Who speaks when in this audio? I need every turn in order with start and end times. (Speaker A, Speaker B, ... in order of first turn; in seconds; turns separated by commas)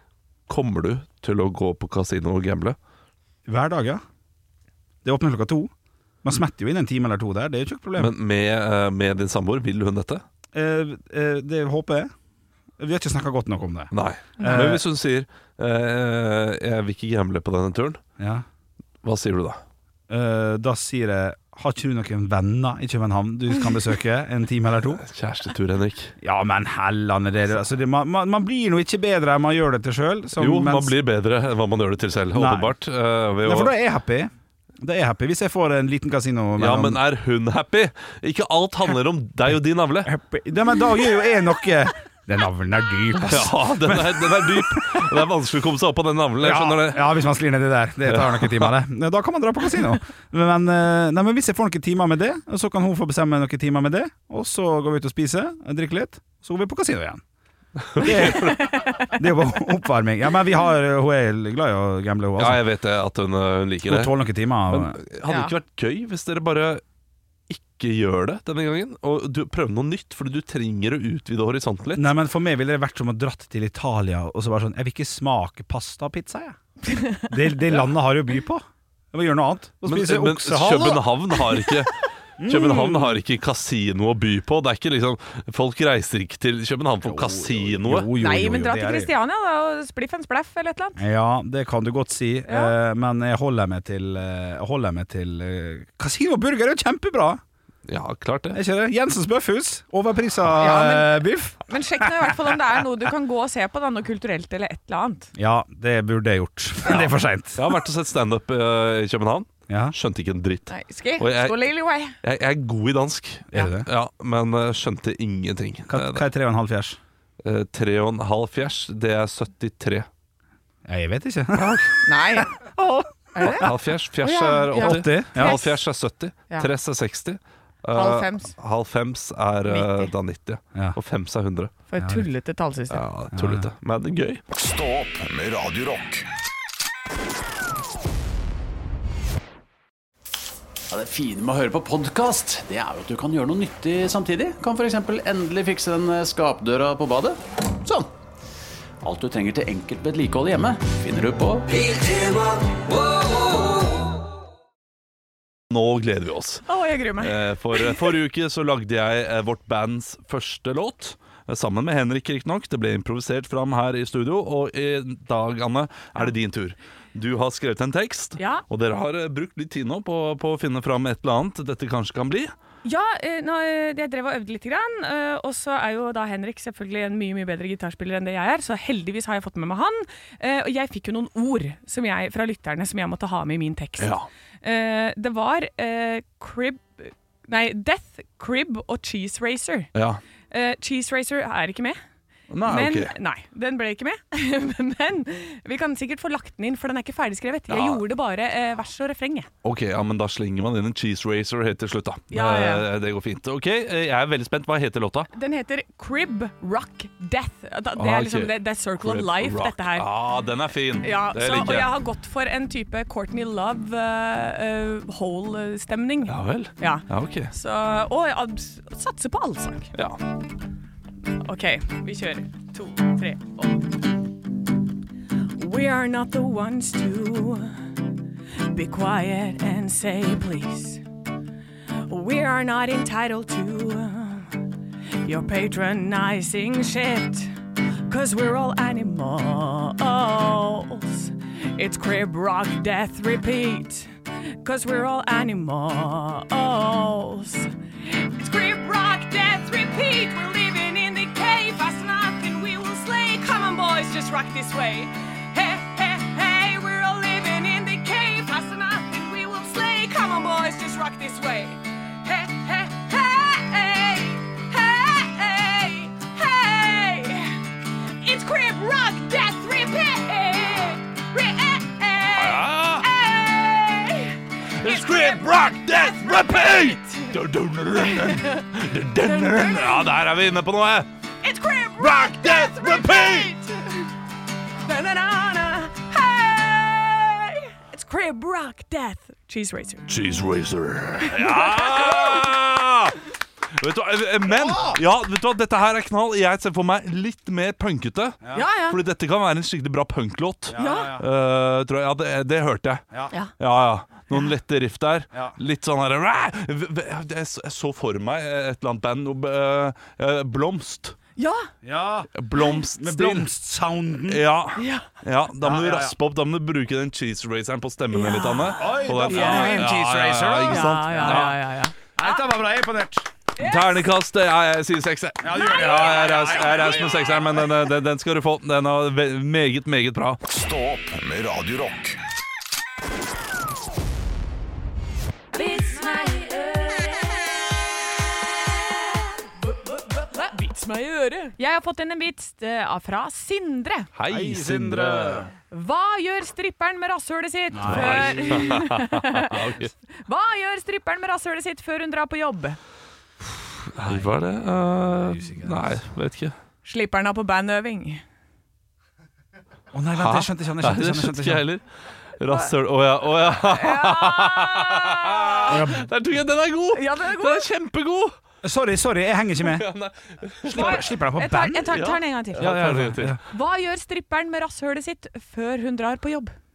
Speaker A: 0.5-2.8, Speaker B: 3.5-4.0, Speaker B: 5.0-5.7, Speaker B: 6.2-8.1, Speaker A: 8.0-10.2, Speaker B: 10.5-12.1, Speaker B: 12.8-14.8, Speaker A: 13.9-18.0, Speaker C: 14.4-14.7, Speaker B: 18.2-18.4, Speaker A: 19.0-19.6, Speaker B: 20.1-25.0, Speaker A: 25.0-26.1, Speaker B: 26.2-30.9, Speaker A: 30.4-33.7, Speaker B: 32.3-32.7, Speaker B: 33.4-34.3, Speaker B: 34.8-37.0, Speaker A: 36.6-40.1, Speaker B: 40.0-45.2, Speaker A: 43.2-47.2, Speaker B: 46.4-57.2, Speaker A: 48.0-48.7, Speaker A: 57.8-58.6, Speaker B: 58.0-62.6, Speaker C: 58.3-59.1, Speaker A: 62.4-64.1, Speaker B: 63.9-65.0, Speaker A: 64.7-66.8, Speaker C: 65.2-65.5, Speaker A: 67.5-72.1, Speaker B: 71.9-76.6, Speaker C: 76.9-77.3, Speaker B: 77.2-81.0, Speaker A: 79.8-88.1, Speaker B: 82.4-83.2, Speaker B: 87.0-89.1, Speaker C: 88.2-91.0, Speaker B: 91.0-97.4, Speaker C: 92.5-92.7, Speaker A: 97.9-98.6, Speaker B: 98.5-102.3, Speaker C: 100.5-105.3, Speaker B: 105.3-107.6, Speaker A: 106.9-111.6, Speaker B: 109.7-109.9, Speaker C: 110.7-112.2, Speaker A: 112.2-116.2, Speaker B: 113.5-113.9, Speaker B: 115.9-117.0, Speaker A: 117.4-120.1, Speaker B: 120.9-123.7, Speaker A: 121.5-121.9, Speaker C: 122.0-122.5, Speaker C: 123.3-125.8, Speaker A: 123.4-131.7, Speaker B: 124.8-125.5, Speaker C: 127.9-128.5, Speaker C: 129.7-130.1, Speaker C: 131.9-133.0, Speaker B: 132.0-132.3, Speaker A: 132.9-134.4, Speaker B: 133.3-133.7, Speaker D: 134.5-136.2, Speaker E: 140.9-148.1, Speaker E: 149.0-152.2, Speaker A: 155.7-156.7, Speaker C: 156.7-158.1, Speaker A: 157.2-172.5, Speaker C: 168.4-168.6, Speaker C: 172.8-189.9, Speaker A: 184.0-184.3, Speaker A: 189.9-190.2, Speaker C: 190.5-192.0, Speaker A: 192.5-193.1, Speaker C: 192.7-199.5, Speaker A: 197.7-198.0, Speaker A: 199.6-205.3, Speaker C: 202.3-202.8, Speaker C: 205.3-210.1, Speaker A: 207.9-211.9, Speaker C: 211.0-219.9, Speaker A: 216.3-217.5, Speaker C: 221.4-224.0, Speaker C: 225.6-227.9, Speaker C: 228.6-231.0, Speaker C: 232.1-234.7, Speaker C: 235.2-237.5, Speaker C: 238.1-277.3, Speaker A: 272.4-273.1, Speaker A: 274.8-281.1, Speaker C: 277.9-278.6, Speaker C: 279.2-280.1, Speaker C: 281.4-284.1, Speaker A: 282.0-283.6, Speaker C: 284.8-290.1, Speaker A: 290.1-293.2, Speaker C: 291.2-292.3, Speaker A: 293.8-303.0, Speaker B: 294.6-295.0, Speaker C: 298.5-299.0, Speaker B: 300.7-301.2, Speaker C: 300.8-301.1, Speaker A: 303.6-311.2, Speaker C: 311.4-311.7, Speaker B: 311.8-312.3, Speaker A: 312.3-313.5, Speaker B: 312.9-314.4, Speaker A: 314.3-321.6, Speaker C: 314.8-315.1, Speaker B: 315.6-316.1, Speaker C: 318.1-319.9, Speaker B: 318.8-321.5, Speaker C: 320.7-321.9, Speaker B: 322.1-323.3, Speaker C: 323.6-324.1, Speaker A: 323.6-330.4, Speaker B: 325.4-327.5, Speaker D: 330.5-332.2, Speaker C: 335.5-337.6, Speaker C: 340.1-344.1, Speaker A: 344.1-345.5, Speaker B: 344.3-345.5, Speaker C: 345.7-352.8, Speaker B: 347.7-348.9, Speaker A: 347.8-349.9, Speaker A: 353.9-356.5, Speaker B: 354.0-354.4, Speaker B: 355.2-356.0, Speaker C: 356.8-358.2, Speaker B: 359.9-361.6, Speaker A: 360.2-361.8, Speaker A: 362.4-368.4, Speaker C: 363.6-365.8, Speaker B: 365.7-366.1, Speaker C: 366.9-367.6, Speaker B: 368.6-369.9, Speaker A: 369.6-371.1, Speaker B: 370.6-372.0, Speaker C: 370.7-372.9, Speaker A: 371.9-373.4, Speaker B: 372.5-373.4, Speaker C: 373.4-376.5